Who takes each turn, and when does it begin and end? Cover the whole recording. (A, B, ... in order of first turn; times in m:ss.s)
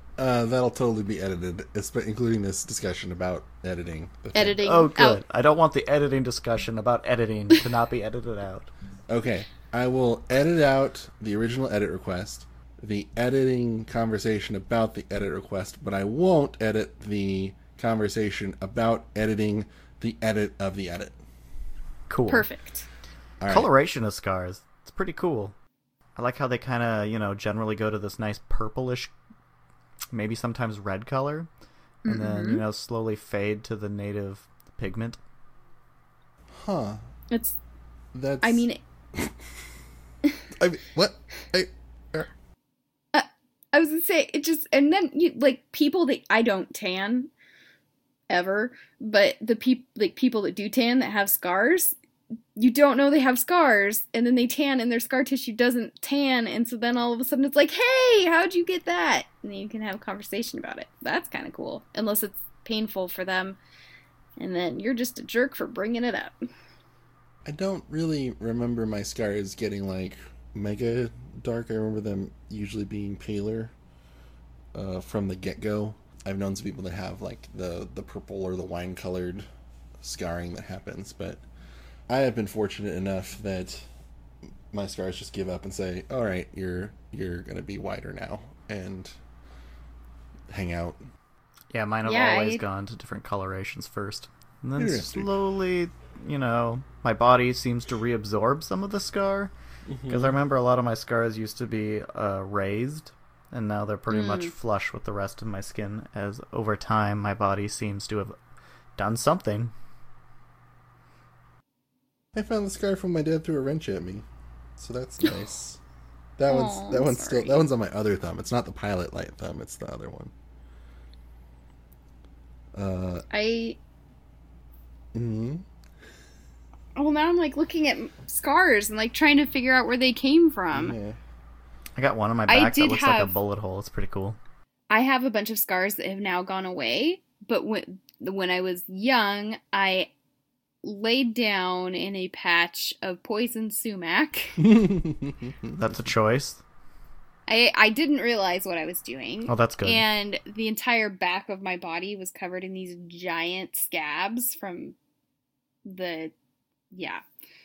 0:00.2-0:04.6 A
0:04.3-0:05.2 B
0:04.6-0:08.7 C
0:09.1-0:21.2 A
0:22.1-0:22.5 C
0:22.3-0:22.8 B
0:23.4-0:23.7 A
0:23.5-0:25.5 C
0:26.2-0:29.1 C
0:30.1-0:31.5 C
0:32.0-0:35.2 C
0:32.0-0:32.6 B
0:36.6-0:37.0 A
0:37.3-0:37.6 B
0:38.1-0:38.7 A
0:38.4-0:38.8 B
0:40.6-0:42.3 A
0:43.1-0:47.3 B
0:48.3-0:52.0 B
0:52.5-1:03.6 B
1:04.4-1:06.3 B
1:07.4-1:13.7 A
1:14.7-1:19.4 A
1:20.0-1:21.4 A
1:22.1-1:23.9 A
1:24.7-1:29.2 A
1:30.5-1:31.0 A
1:31.7-1:39.5 C
1:32.0-1:32.6 B
1:34.8-1:35.3 A
1:39.9-1:40.4 A
1:40.1-1:48.3 C
1:44.1-1:44.5 B
1:49.0-1:49.7 C
1:52.3-1:54.3 A
1:54.8-1:55.8 A
1:56.4-2:00.3 A
1:56.5-1:57.7 B
2:02.7-2:03.2 A
2:03.3-2:03.8 B
2:05.1-2:05.6 A
2:07.0-2:11.0 B
2:10.7-2:11.2 A
2:12.0-2:14.4 C
2:12.5-2:13.3 B
2:14.9-2:20.1 B
2:20.8-2:24.6 B
2:24.6-2:25.8 A
2:25.7-2:26.6 C
2:27.5-2:35.0 B
2:29.4-2:30.0 C
2:35.8-2:36.3 B
2:36.9-2:37.2 B